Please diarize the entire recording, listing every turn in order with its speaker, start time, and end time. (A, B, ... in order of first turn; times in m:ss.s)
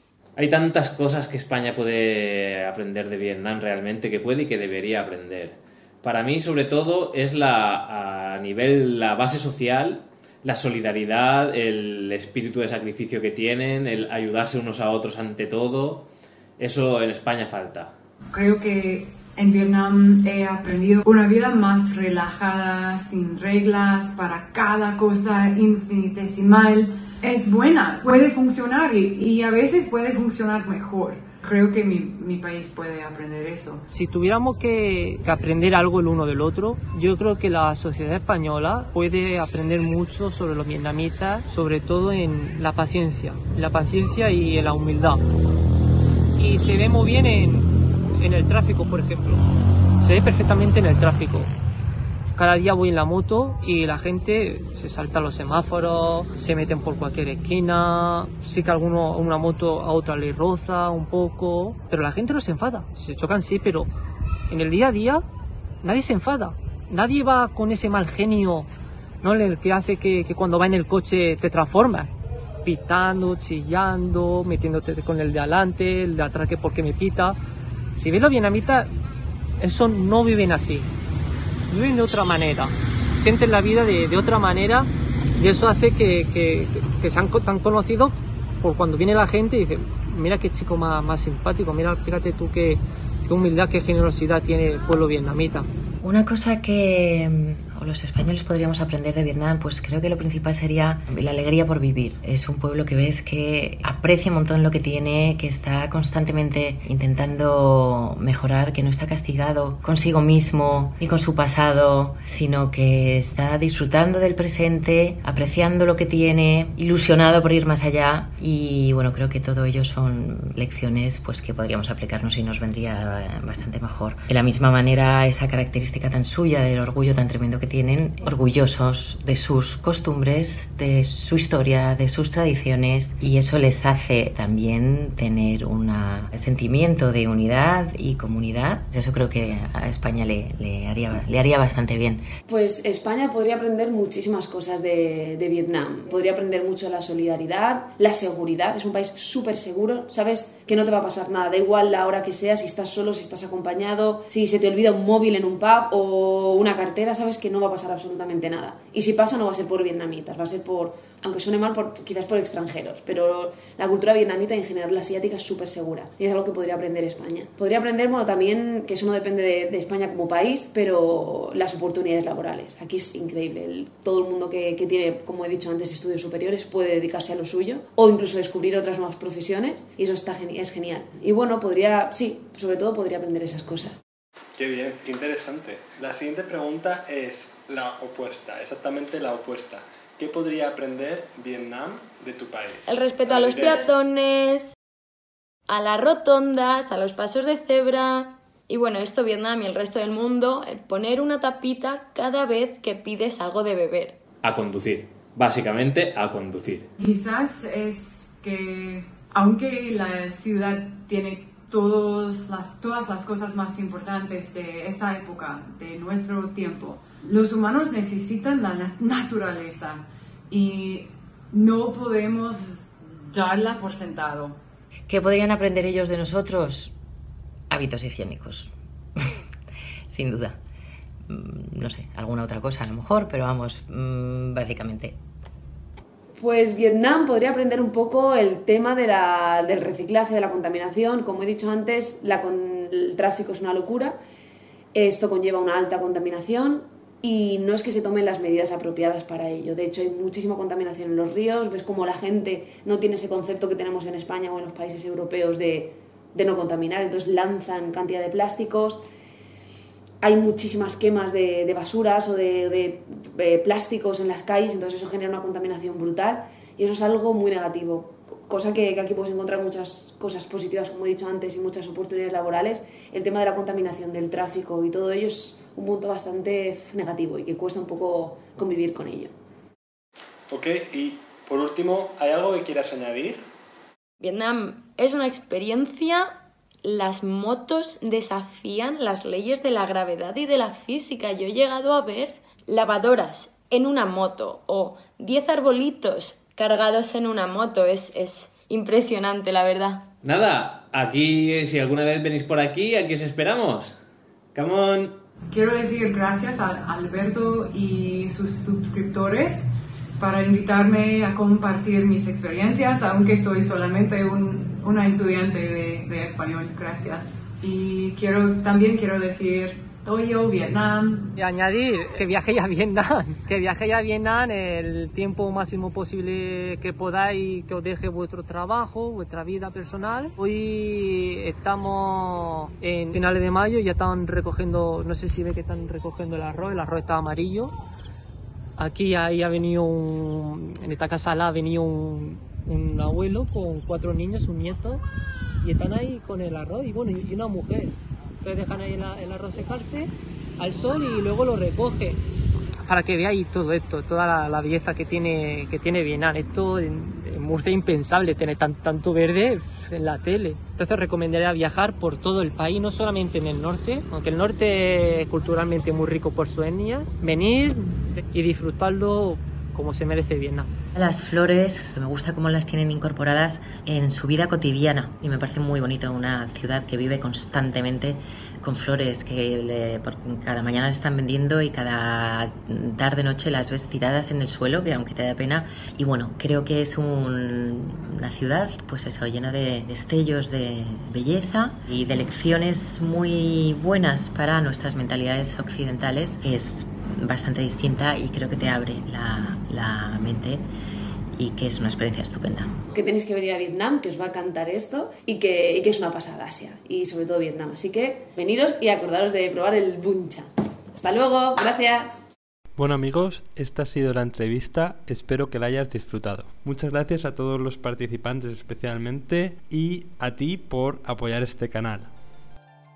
0:00.4-0:16.1 A
0:16.6-0:17.9 A
0:18.3-0:33.9 B
0:33.9-0:45.2 C
0:46.4-0:49.4 C
0:50.0-0:51.5 C
0:52.3-1:03.9 C
1:04.5-1:05.2 C
1:05.8-1:08.7 C
1:09.2-1:12.1 C
1:12.6-1:17.4 C
1:18.0-1:18.9 C
1:19.6-1:20.9 C
1:21.7-1:35.7 C
1:36.0-2:22.2 D
2:22.5-3:04.0 E
3:04.6-3:13.9 F
3:12.9-3:14.7 G
3:15.7-3:24.2 G
3:24.4-3:26.9 A
3:27.0-3:44.6 B
3:45.1-3:46.9 D
3:47.7-3:49.4 D
3:50.1-3:50.6 D
3:51.3-3:55.2 D
3:56.4-4:04.2 E
4:05.0-4:19.0 E
4:20.2-4:39.3 E
4:40.5-4:43.4 F
4:44.2-4:46.3 G
4:46.8-5:00.1 G
5:00.2-5:04.0 A
5:04.6-5:05.2 A
5:05.5-5:09.7 B
5:10.2-5:21.3 B
5:21.4-5:37.7 C
5:38.8-5:45.0 C
5:45.6-5:52.2 C
5:52.9-6:10.7 C
6:10.9-6:40.7 D
6:41.3-6:42.8 D
6:42.9-6:52.2 E
6:52.8-7:02.1 F